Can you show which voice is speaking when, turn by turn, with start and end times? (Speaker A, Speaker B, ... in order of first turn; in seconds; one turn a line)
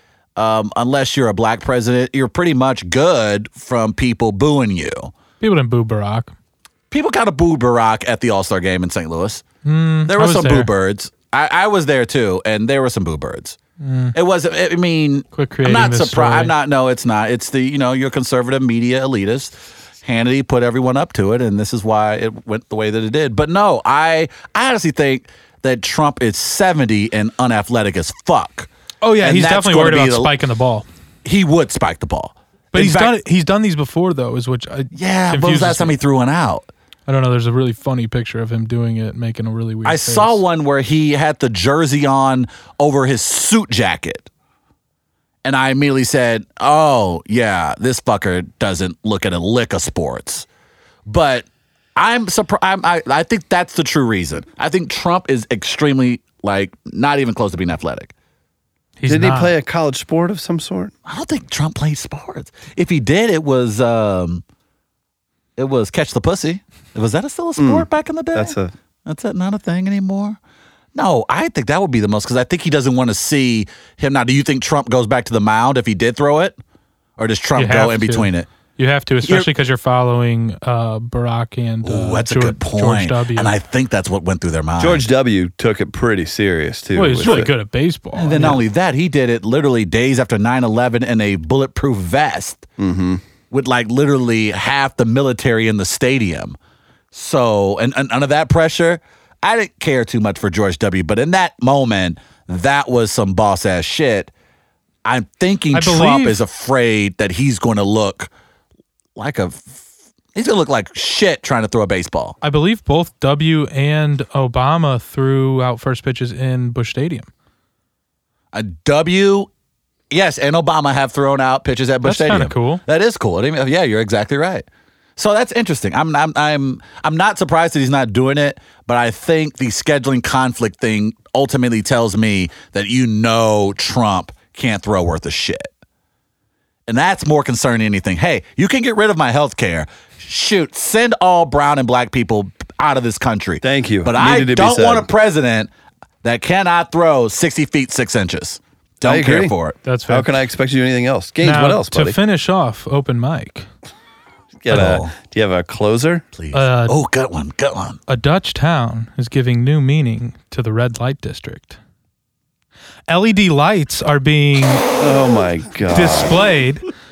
Speaker A: 0.3-5.1
Speaker B: 5.4-6.3
Speaker A: 6.9-9.4
Speaker B: 9.6-10.7
Speaker A: 10.1-13.6
Speaker B: 13.8-14.1
Speaker A: 14.1-28.7
Speaker B: 15.3-16.5
Speaker B: 29.0-30.9
Speaker A: 29.2-30.4
Speaker A: 31.2-33.1
Speaker B: 32.7-36.0
Speaker A: 34.9-36.7
Speaker B: 37.1-40.4
Speaker A: 39.8-44.3
Speaker A: 45.4-50.5
Speaker A: 51.0-58.1
Speaker B: 59.0-59.5
Speaker C: 59.1-60.9
Speaker A: 61.0-64.4
Speaker A: 65.6-70.4
Speaker C: 67.6-68.7
Speaker A: 70.9-76.6
Speaker A: 77.2-78.5
Speaker B: 77.5-83.5
Speaker A: 79.2-79.5
Speaker A: 81.8-85.1
Speaker C: 84.8-87.5
Speaker B: 86.9-88.6
Speaker A: 88.1-92.7
Speaker C: 92.8-93.2
Speaker A: 93.5-96.6
Speaker A: 97.1-104.3
Speaker A: 105.0-108.3
Speaker B: 105.7-106.4
Speaker A: 109.2-112.4
Speaker B: 112.4-117.3
Speaker A: 118.5-119.5
Speaker A: 120.1-124.7
Speaker B: 122.0-122.8
Speaker A: 125.2-135.7
Speaker A: 136.9-145.7
Speaker C: 143.6-145.1
Speaker A: 146.2-149.8
Speaker C: 149.0-149.5
Speaker B: 149.8-150.3
Speaker C: 150.1-152.2
Speaker B: 151.4-153.7
Speaker C: 154.6-156.2
Speaker A: 154.7-155.1
Speaker A: 156.3-158.0
Speaker B: 156.5-157.0
Speaker B: 158.1-161.8
Speaker B: 163.1-164.9
Speaker C: 165.0-166.4
Speaker B: 165.9-166.9